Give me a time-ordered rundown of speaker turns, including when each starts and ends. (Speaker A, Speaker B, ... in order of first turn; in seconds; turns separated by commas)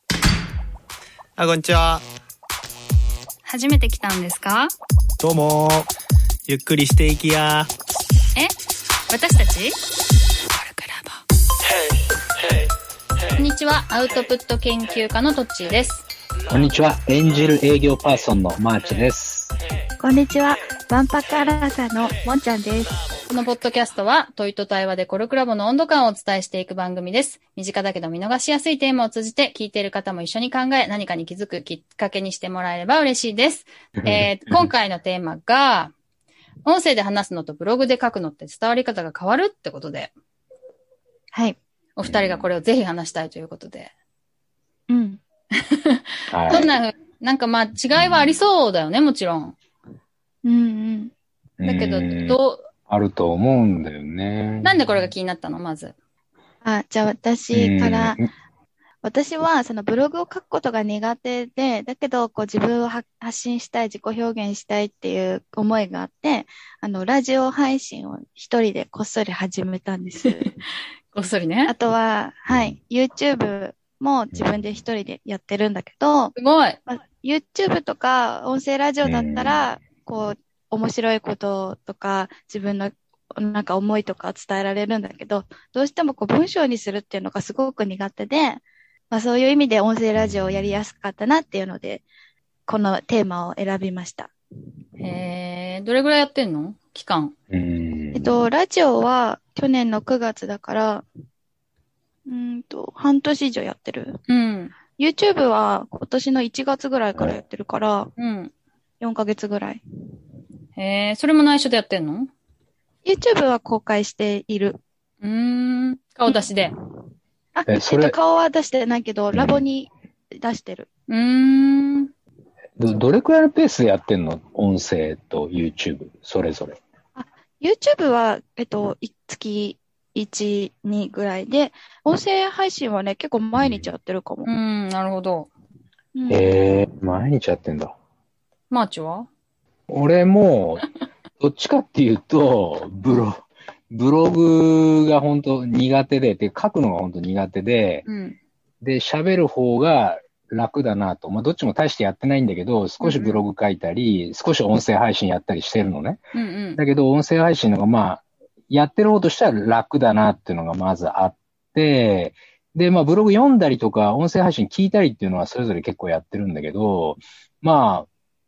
Speaker A: 1.4-2.0, Speaker B: 3.5-4.7, Speaker A: 5.2-5.9, Speaker A: 6.5-7.7, Speaker B: 9.1-9.8, Speaker B: 10.6-11.2, Speaker B: 13.4-16.0, Speaker C: 16.5-19.6, Speaker D: 20.0-22.9, Speaker B: 23.3-35.9, Speaker C: 34.0-34.7, Speaker B: 36.6-40.1, Speaker B: 42.0-43.9, Speaker C: 42.0-42.5, Speaker D: 44.9-45.2, Speaker B: 45.6-49.6, Speaker C: 46.3-46.7, Speaker C: 48.0-48.3, Speaker D: 50.5-51.1, Speaker C: 51.6-52.4, Speaker B: 51.6-52.7, Speaker C: 52.9-54.8, Speaker B: 54.6-56.0, Speaker D: 56.6-58.2, Speaker C: 57.5-58.3, Speaker D: 59.0-70.5, Speaker B: 71.1-71.7, Speaker D: 71.7-76.3, Speaker C: 72.5-72.7, Speaker B: 76.3-76.8, Speaker D: 76.9-92.1, Speaker C: 79.0-79.6, Speaker C: 90.2-90.8, Speaker D: 92.7-94.3, Speaker B: 95.0-97.3, Speaker C: 97.5-98.3, Speaker D: 98.1-101.0, Speaker D: 102.3-104.2, Speaker B: 104.3-104.7, Speaker D: 105.0-108.1, Speaker B: 108.2-108.5, Speaker D: 109.0-109.8, Speaker B: 110.8-112.3, Speaker D: 113.0-114.8, Speaker B: 115.2-116.7, Speaker D: 116.3-116.5, Speaker D: 117.5-120.9, Speaker C: 117.7-118.2, Speaker C: 119.3-119.6, Speaker B: 121.1-122.1, Speaker C: 122.8-126.8, Speaker D: 127.2-134.5, Speaker C: 133.6-133.9, Speaker B: 134.4-135.5, Speaker D: 136.2-136.6, Speaker C: 136.3-137.9, Speaker B: 138.7-139.3, Speaker C: 139.9-140.9, Speaker C: 141.4-148.1, Speaker B: 148.1-148.4, Speaker C: 148.8-156.2, Speaker B: 153.0-153.4, Speaker B: 156.3-156.8, Speaker C: 156.8-168.1